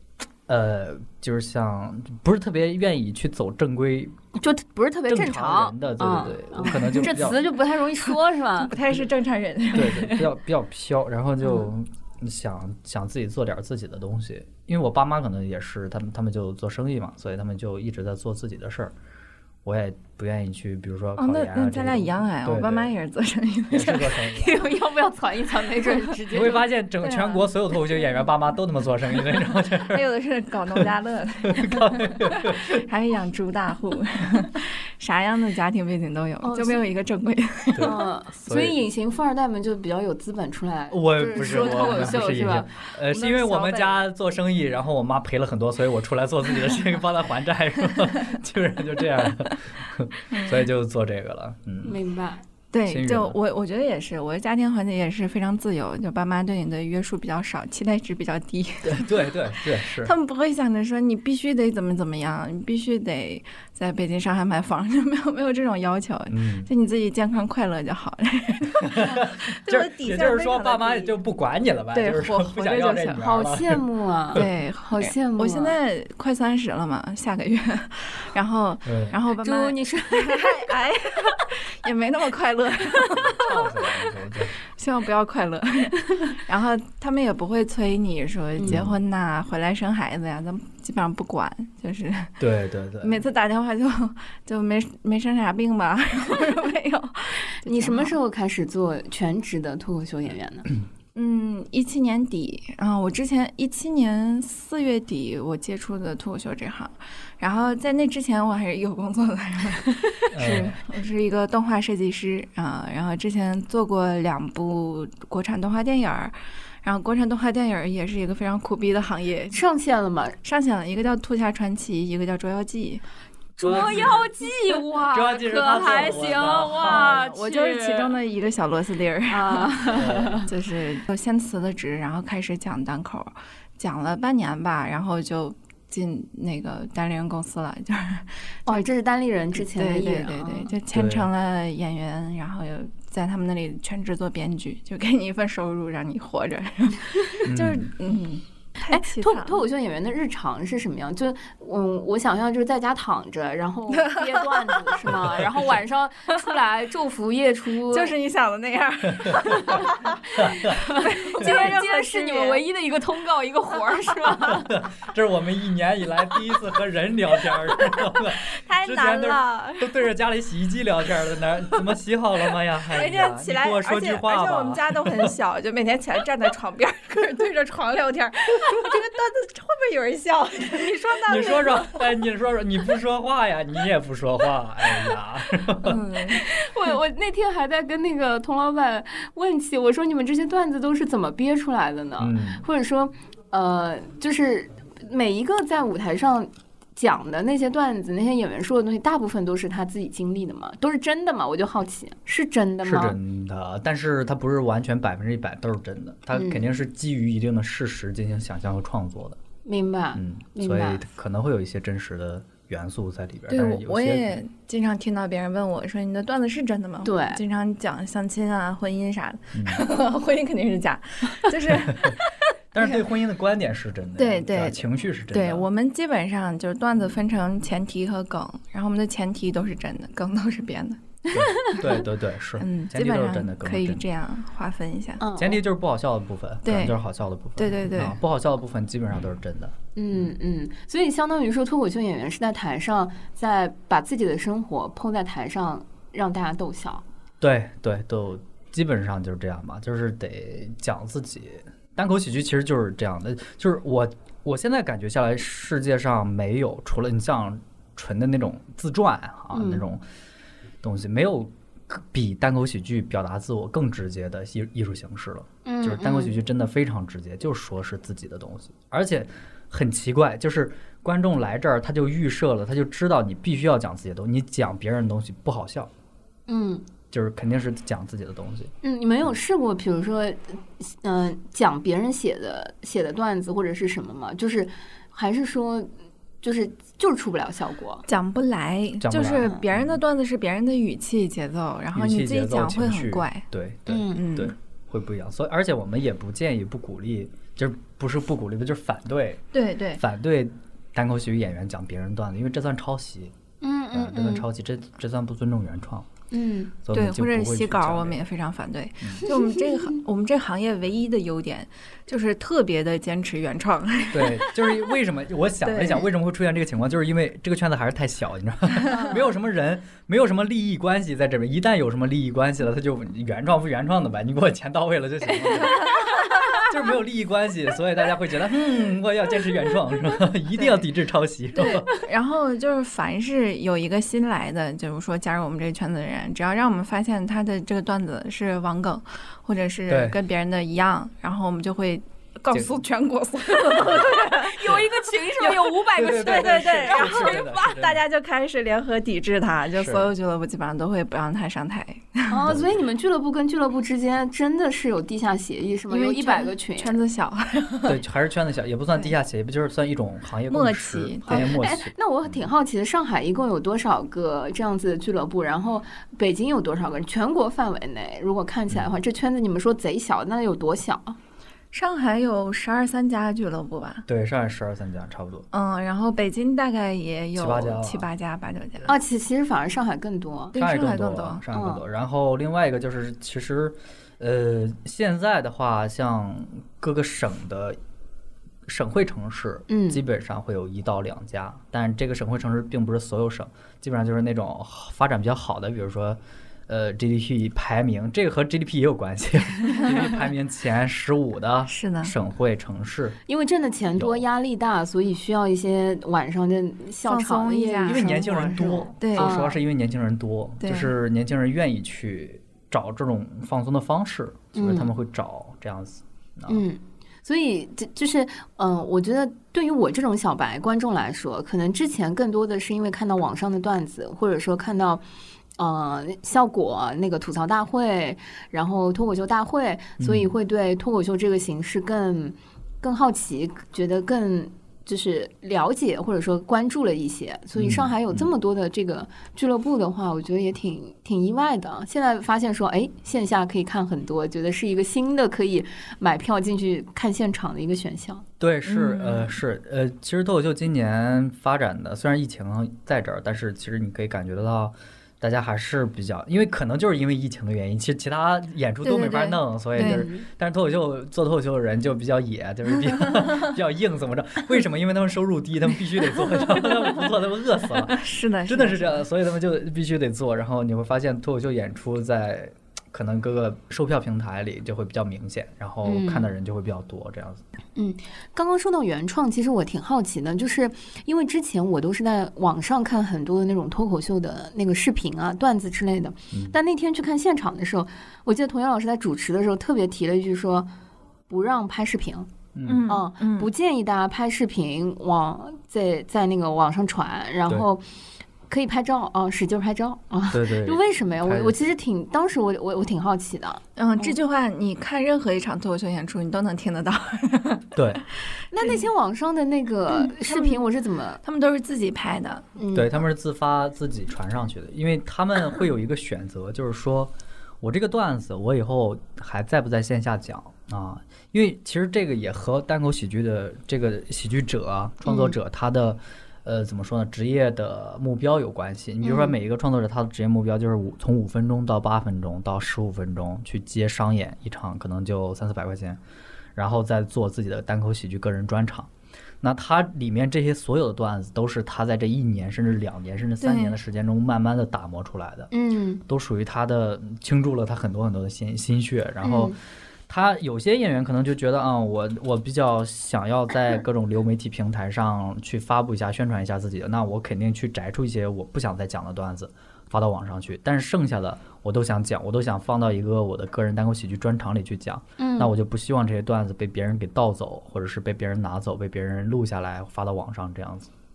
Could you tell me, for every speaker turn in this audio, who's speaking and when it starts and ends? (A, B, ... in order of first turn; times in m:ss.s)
0:00.5-0:04.2 A
0:04.4-0:08.7 B
0:05.1-0:07.4 A
0:08.6-0:10.3 C
0:09.7-0:18.9 A
0:19.6-0:22.9 A
0:21.2-0:24.4 C
0:23.7-0:24.7 A
0:24.1-0:26.8 B
0:26.3-0:30.1 A
0:27.0-0:27.5 C
0:29.5-0:38.0 C
0:31.4-0:32.8 A
0:36.4-0:36.9 B
0:37.7-0:38.8 A
0:37.8-0:42.7 B
0:40.9-0:52.0 A
0:41.4-0:42.4 C
0:43.1-0:44.0 C
0:50.3-0:50.6 C
0:51.8-0:52.4 B
0:52.7-0:59.4 C
0:52.9-0:53.4 A
0:58.8-1:00.1 A
1:00.0-1:11.2 C
1:06.3-1:06.7 A
1:08.8-1:13.8 A
1:11.9-1:13.3 C
1:13.2-1:15.8 B
1:14.4-1:23.9 C
1:18.8-1:19.2 A
1:19.4-1:20.8 B
1:23.1-1:24.5 A
1:24.8-1:32.4 C
1:28.6-1:28.9 A
1:32.4-1:33.2 A
1:33.0-1:38.2 C
1:37.7-1:40.7 B
1:41.2-1:59.6 C
1:50.3-1:50.8 A
1:59.5-2:00.4 B
2:00.4-2:03.0 C
2:03.6-2:08.1 B
2:03.6-2:04.3 A
2:03.7-2:04.1 C
2:05.1-2:07.2 A
2:05.6-2:18.8 C
2:09.3-2:10.5 B
2:10.0-2:10.4 A
2:18.7-2:20.7 B
2:19.7-2:29.6 C
2:20.9-2:21.3 A
2:27.4-2:27.9 A
2:28.9-2:38.1 B
2:33.9-2:35.0 C
2:35.1-2:35.6 A
2:37.9-2:42.6 C
2:40.4-2:44.7 B
2:40.4-2:40.7 A
2:44.6-2:55.3 A
2:48.0-2:50.0 C
2:52.9-3:02.0 C
3:01.3-3:06.0 A
3:05.8-3:06.4 C
3:06.4-3:23.2 B
3:12.2-3:12.6 A
3:22.8-3:29.4 A
3:26.3-3:26.6 B
3:29.6-3:31.0 B
3:30.2-3:34.4 A
3:33.5-3:43.0 C
3:37.0-3:37.4 B
3:39.6-3:39.8 A
3:41.7-3:42.2 A
3:42.7-3:45.6 A
3:44.2-3:51.8 C
3:51.3-3:54.0 A
3:52.6-3:55.2 C
3:55.2-3:55.6 B
3:55.4-4:00.2 A
3:56.6-3:57.0 C
3:57.6-3:58.2 C
4:00.0-4:07.0 B
4:07.4-4:20.0 A
4:19.5-4:19.8 B
4:20.8-4:35.9 A
4:25.6-4:26.4 B
4:36.5-4:36.9 B
4:37.1-4:38.7 A
4:38.8-4:45.9 B
4:46.4-4:48.0 B
4:48.1-4:53.5 C
4:49.0-4:50.0 A
4:51.9-5:03.3 A
4:53.9-4:54.2 B
4:54.1-4:54.5 C
4:59.5-5:00.0 C
5:03.6-5:04.5 B
5:03.9-5:06.1 A
5:06.3-5:06.8 B
5:06.8-5:08.2 A
5:06.9-5:14.9 C
5:09.3-5:09.8 B
5:14.1-5:31.9 A
5:15.6-5:16.1 C
5:18.9-5:19.2 C
5:31.6-5:44.8 C
5:39.9-5:40.2 A
5:42.5-5:42.8 A
5:43.8-5:44.0 A
5:44.3-5:47.5 B
5:45.4-5:52.5 C
5:45.9-5:48.0 A
5:49.8-5:50.1 A
5:52.3-5:57.0 B
5:52.5-5:52.8 A
5:55.9-5:58.0 C
5:57.9-6:02.4 A
6:00.5-6:01.5 C
6:01.3-6:11.2 B
6:11.7-6:14.1 C
6:14.1-6:15.5 A
6:15.5-6:18.9 C
6:17.4-6:18.1 A
6:18.9-6:20.6 B
6:20.5-6:21.4 C
6:20.6-6:27.8 A
6:21.5-6:21.8 B
6:28.7-6:43.2 A
6:29.7-6:30.0 B
6:41.7-6:42.1 C
6:43.3-6:49.6 B
6:44.0-6:44.2 A
6:47.0-6:49.3 C
6:47.9-6:56.6 A
6:50.6-6:50.9 C
6:54.6-6:54.9 B
6:56.5-7:05.0 B
7:05.6-7:28.3 B
7:10.0-7:10.3 A
7:17.6-7:18.3 A
7:28.4-7:57.4 A
7:28.7-7:29.4 C
7:38.8-7:40.1 C
7:39.8-7:40.3 B
7:47.9-7:49.1 C
7:55.8-7:56.3 B
7:57.8-8:10.7 B
8:11.3-8:12.3 B
8:12.6-8:12.9 A
8:12.7-8:13.5 C
8:12.9-8:17.8 B
8:18.5-8:24.2 B
8:20.3-8:21.6 A
8:23.8-8:27.8 C
8:27.8-8:28.0 A
8:28.5-8:31.2 B
8:30.0-8:30.6 C
8:31.2-8:32.4 C
8:32.6-8:33.0 B
8:32.7-8:56.0 A
8:45.0-8:45.4 B
8:49.0-8:49.4 B
8:56.6-8:58.9 A
8:59.4-9:05.5 A
9:03.4-9:03.8 C
9:05.5-9:06.0 B
9:06.1-9:09.6 A
9:09.2-9:09.6 B
9:10.1-9:30.9 A
9:25.2-9:25.5 B